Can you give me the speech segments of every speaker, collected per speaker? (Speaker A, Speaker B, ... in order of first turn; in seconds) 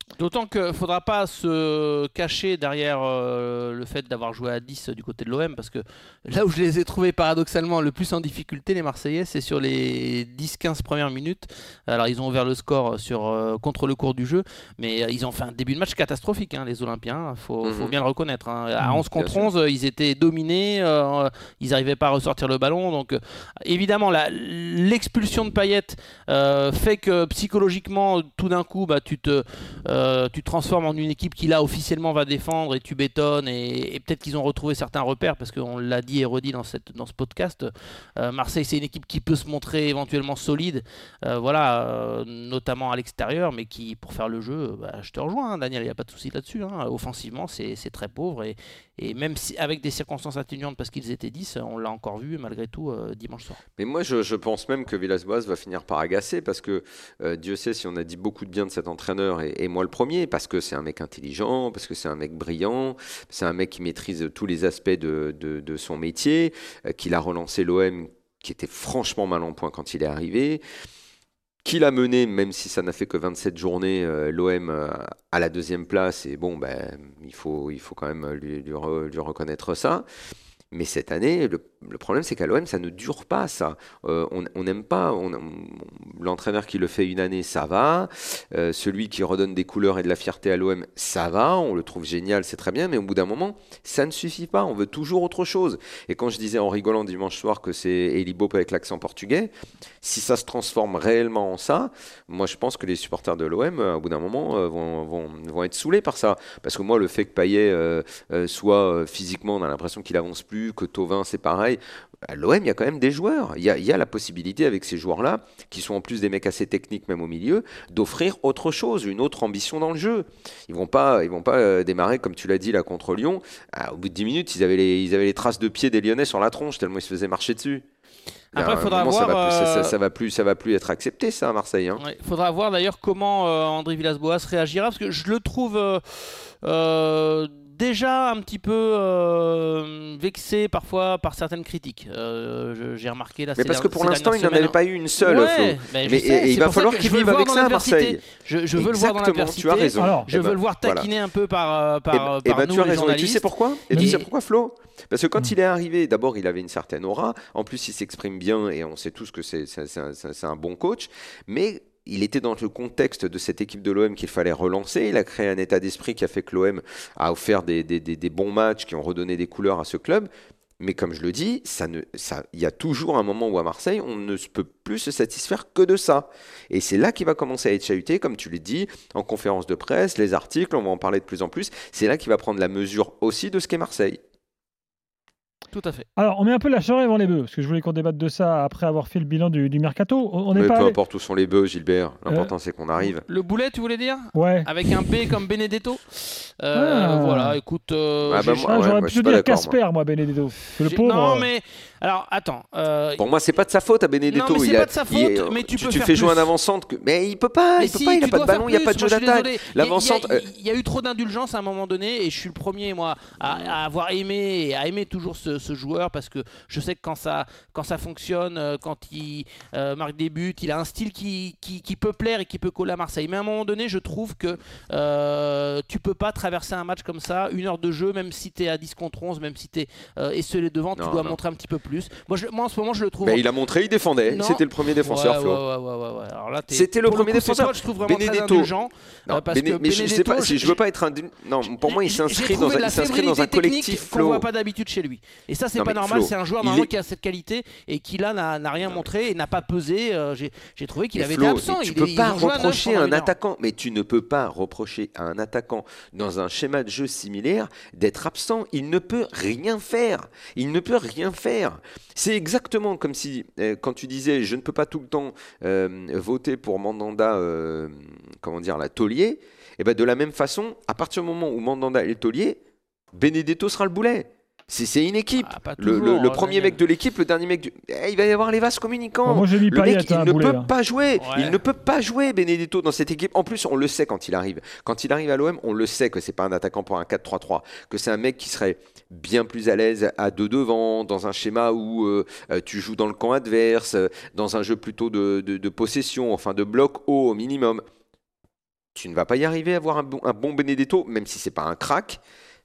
Speaker A: 0.2-53.6, 128.5-130.0, 132.0-154.3, 185.7-186.1, 193.1-198.7, 200.8-203.3, 204.3-206.5, 207.8-233.4, 234.3-240.8, 241.7-253.3, 275.4-276.8, 281.2-281.6
Speaker B: 17.6-18.0, 19.1-19.5, 53.8-70.6, 71.7-80.0, 80.7-127.8, 128.5-132.0, 143.6-148.2, 148.8-151.1, 152.1-170.3, 170.8-184.2, 190.5-193.2, 198.2-199.8, 203.2-210.5, 213.4-213.8, 231.0-231.4, 233.2-235.6, 236.7-238.7, 239.3-244.5, 245.8-246.9, 251.1-272.6, 273.1-297.8, 298.9-302.2
Speaker C: 150.0-150.3, 153.9-154.2, 186.2-191.0, 194.3-194.7, 196.7-197.6, 198.5-201.5, 279.2-280.7